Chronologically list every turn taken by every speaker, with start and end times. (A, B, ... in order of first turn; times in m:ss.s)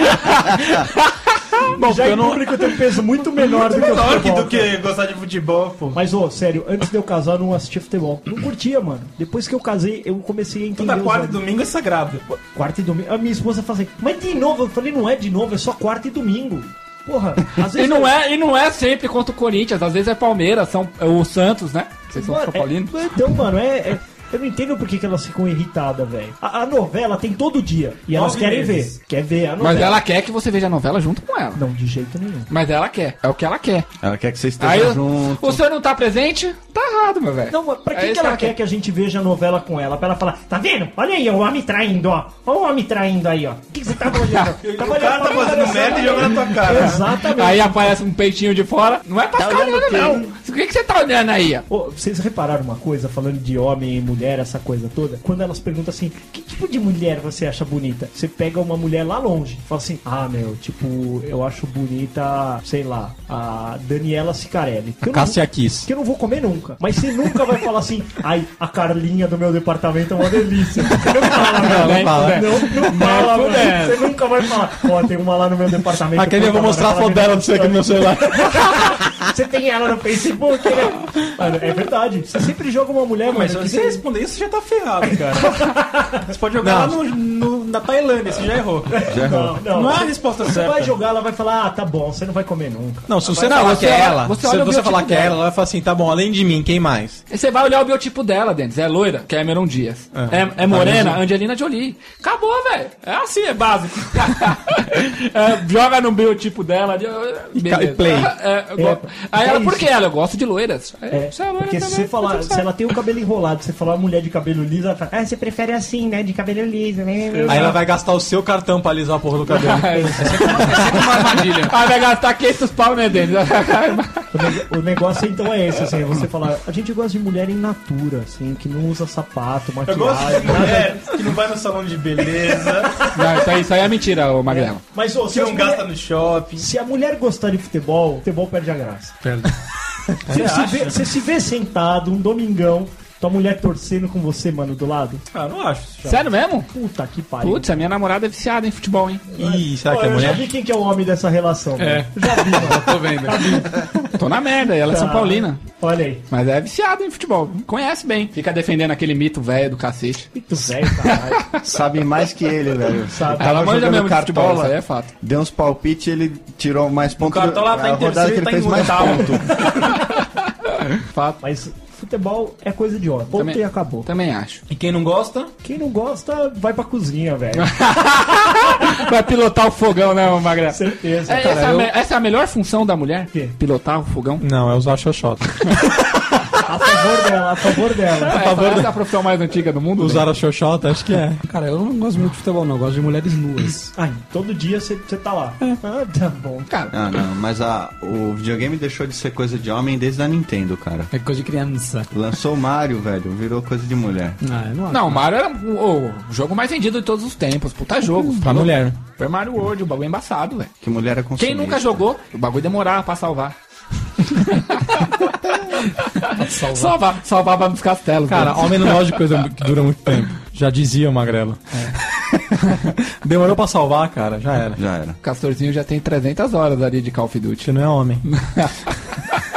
0:01.7-0:04.8 A
0:01.7-0:02.7 B
0:03.6-0:06.0 C
0:05.9-0:11.5 A
0:10.8-0:12.2 C
0:12.3-0:18.1 A
0:17.7-0:23.1 D
0:22.2-0:30.0 A
0:28.1-0:28.9 C
0:29.6-0:31.6 D
0:31.6-0:32.5 A
0:32.5-0:33.9 D
0:34.0-0:35.6 E
0:34.6-0:38.6 D
0:37.5-0:47.9 A
0:44.6-0:47.1 C
0:46.8-0:51.7 D
0:49.4-0:50.3 A
0:51.7-1:24.0 A
1:05.0-1:05.9 B
1:11.5-1:14.0 D
1:11.6-1:12.4 B
1:16.1-1:19.0 B
1:23.3-1:25.7 C
1:25.1-1:26.2 A
1:26.3-1:29.0 C
1:26.6-1:27.0 B
1:28.9-1:33.8 A
1:29.1-1:29.6 E
1:29.6-1:30.9 C
1:33.1-1:37.2 B
1:33.4-1:35.4 D
1:37.3-1:52.7 D
1:40.2-1:41.2 B
1:47.5-1:48.4 B
1:48.8-1:49.9 A
1:51.1-1:57.8 A
1:57.5-2:00.4 B
1:59.5-2:04.3 D
1:59.9-2:00.8 A
2:00.2-2:01.7 F
2:04.3-2:11.1 A
2:09.8-2:13.1 C
2:12.4-2:13.0 A
2:13.1-2:14.8 D
2:14.5-2:15.9 A
2:15.3-2:16.7 C
2:16.6-2:19.2 A
2:20.3-2:25.2 A
2:20.3-2:21.0 C
2:25.3-2:26.3 C
2:26.0-2:26.7 D
2:26.7-2:27.8 A
2:27.4-2:29.3 D
2:29.4-2:30.5 B
2:29.4-2:34.1 A
2:31.8-2:33.7 F
2:34.2-2:35.6 D
2:34.9-2:36.2 A
2:36.3-2:41.6 D
2:40.4-2:41.6 A
2:41.6-2:49.6 E
2:43.1-2:43.8 A
2:43.3-2:45.1 D
2:47.2-2:49.7 C
2:50.9-2:51.4 D
2:51.4-2:54.1 A
2:53.3-2:54.6 D
2:54.7-2:55.5 C
2:55.6-2:57.7 A
2:57.6-3:04.5 D
3:00.7-3:01.9 A
3:04.4-3:05.7 B
3:06.6-3:08.4 A
3:08.3-3:10.3 D
3:08.3-3:08.9 B
3:10.0-3:11.4 B
3:11.4-3:13.9 F
3:14.0-3:16.8 A
3:16.9-3:21.1 E
3:21.1-3:22.1 F
3:22.1-3:24.4 E
3:24.4-3:25.2 F
3:24.9-3:30.7 D
3:28.4-3:29.0 B
3:30.8-3:32.0 E
3:31.4-3:33.6 D
3:34.2-3:39.2 D
3:36.3-3:37.0 F
3:38.3-3:44.8 B
3:44.8-3:45.2 E
3:45.2-3:47.7 D
3:47.6-3:48.2 B
3:48.2-3:49.4 D